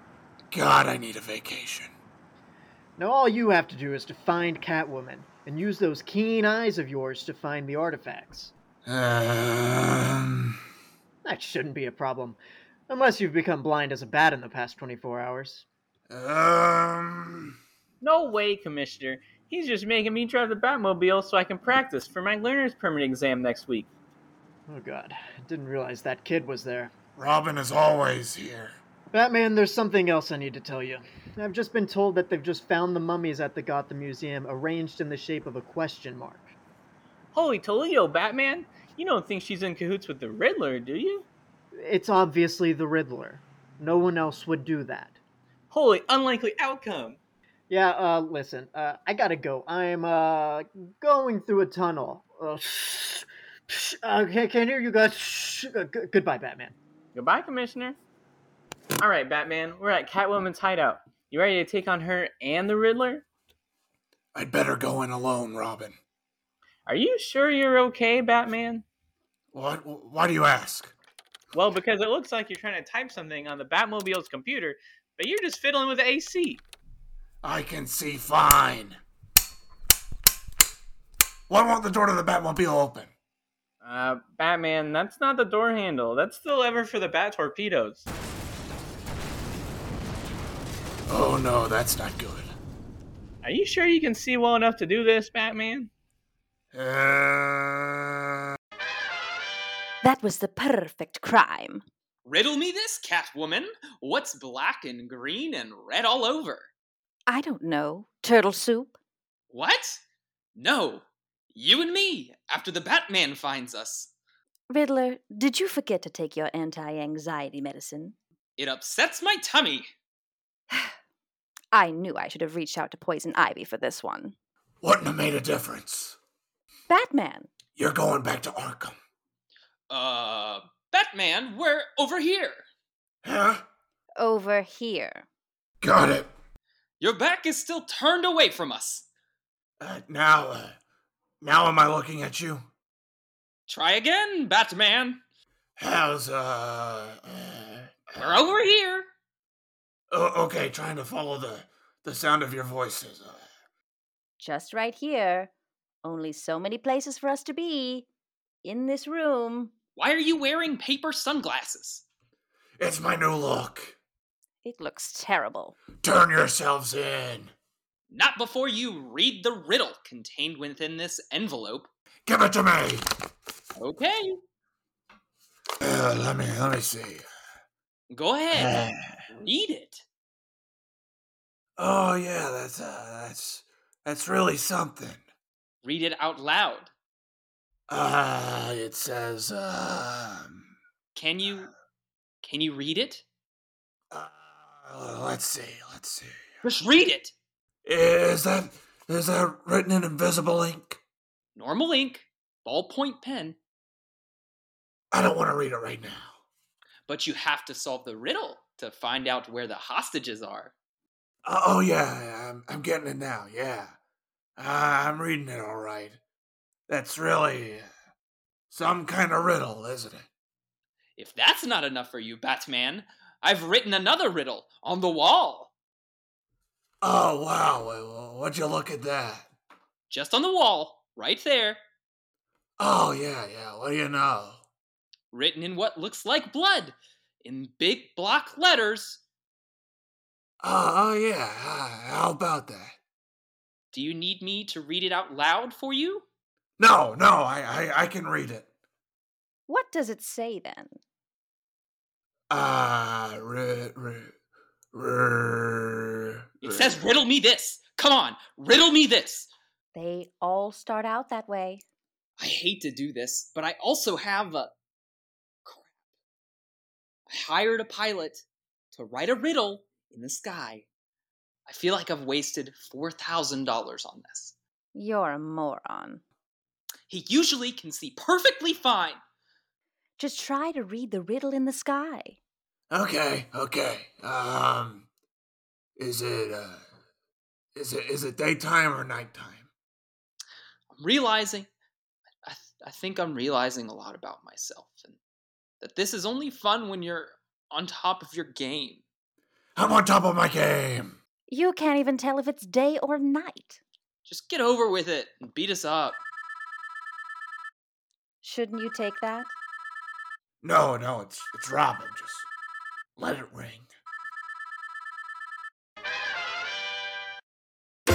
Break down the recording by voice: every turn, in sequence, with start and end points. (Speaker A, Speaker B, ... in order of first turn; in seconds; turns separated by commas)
Speaker A: 0.5-1.9, Speaker B: 3.0-8.5, Speaker A: 8.8-10.6, Speaker B: 11.2-12.4, Speaker B: 12.9-15.6, Speaker A: 16.1-17.5, Speaker C: 18.0-23.9, Speaker B: 24.7-26.9, Speaker A: 27.1-28.7, Speaker B: 29.1-36.5, Speaker C: 37.3-41.3, Speaker B: 41.8-45.2, Speaker C: 45.7-47.2, Speaker B: 47.7-56.7, Speaker C: 57.1-58.0, Speaker C: 59.0-63.2, Speaker A: 64.3-66.0, Speaker C: 66.9-68.8, Speaker A: 69.5-70.9, Speaker C: 71.5-76.6, Speaker A: 77.4-79.0, Speaker A: 81.5-83.1, Speaker C: 83.8-88.1, Speaker A: 91.1-92.5, Speaker C: 93.4-95.9, Speaker A: 96.7-98.1, Speaker D: 100.0-101.8, Speaker E: 102.2-106.7, Speaker D: 107.3-109.0, Speaker E: 109.5-110.0, Speaker E: 110.5-114.1, Speaker D: 114.7-118.2, Speaker E: 118.6-119.9, Speaker D: 121.7-124.3, Speaker A: 124.8-126.2, Speaker D: 126.9-127.5, Speaker A: 127.8-128.9, Speaker E: 129.9-132.6, Speaker A: 133.2-133.6, Speaker D: 134.2-135.2, Speaker A: 135.8-136.3, Speaker E: 137.0-139.1, Speaker A: 139.8-140.8, Speaker A: 141.4-142.7, Speaker E: 143.7-145.2, Speaker A: 145.8-148.2, Speaker E: 148.2-149.1, Speaker A: 150.1-153.4, Speaker D: 154.4-155.5, Speaker D: 156.0-158.1, Speaker D: 158.6-159.7, Speaker E: 159.9-162.0, Speaker A: 162.8-164.0, Speaker D: 164.6-165.8, Speaker A: 166.0-167.5, Speaker E: 168.1-171.9, Speaker A: 172.2-173.0, Speaker E: 173.8-174.4, Speaker A: 175.8-177.2, Speaker E: 178.1-180.0, Speaker A: 178.5-179.2, Speaker A: 181.8-185.2, Speaker E: 185.8-186.9, Speaker A: 187.9-190.7, Speaker E: 191.1-191.7, Speaker E: 192.4-193.2, Speaker A: 194.1-196.3, Speaker E: 196.6-197.3, Speaker A: 197.8-201.0, Speaker E: 201.5-203.6, Speaker A: 205.1-206.3, Speaker E: 207.1-210.7, Speaker A: 211.4-213.9, Speaker A: 214.6-216.2, Speaker A: 216.9-217.9, Speaker A: 218.7-220.2, Speaker E: 221.2-225.7, Speaker A: 227.0-229.5, Speaker E: 230.1-231.8, Speaker A: 232.8-234.6, Speaker E: 235.3-239.2, Speaker A: 240.6-242.9, Speaker E: 243.9-246.2, Speaker A: 246.8-248.7, Speaker D: 249.7-251.0, Speaker A: 252.5-254.3, Speaker A: 254.9-257.0, Speaker E: 256.6-259.5, Speaker D: 259.9-261.8, Speaker E: 262.4-264.7, Speaker E: 265.6-265.9, Speaker E: 267.3-270.9, Speaker E: 271.7-274.6, Speaker D: 274.9-276.2, Speaker E: 277.1-279.2, Speaker D: 280.2-282.4, Speaker A: 282.9-285.1, Speaker A: 286.0-286.8, Speaker A: 287.8-289.7, Speaker E: 290.9-291.7, Speaker E: 292.4-295.2, Speaker E: 295.8-299.0, Speaker A: 299.8-301.1, Speaker D: 301.5-303.8, Speaker E: 304.2-306.2, Speaker D: 308.4-309.5, Speaker A: 310.6-312.5, Speaker A: 313.2-313.9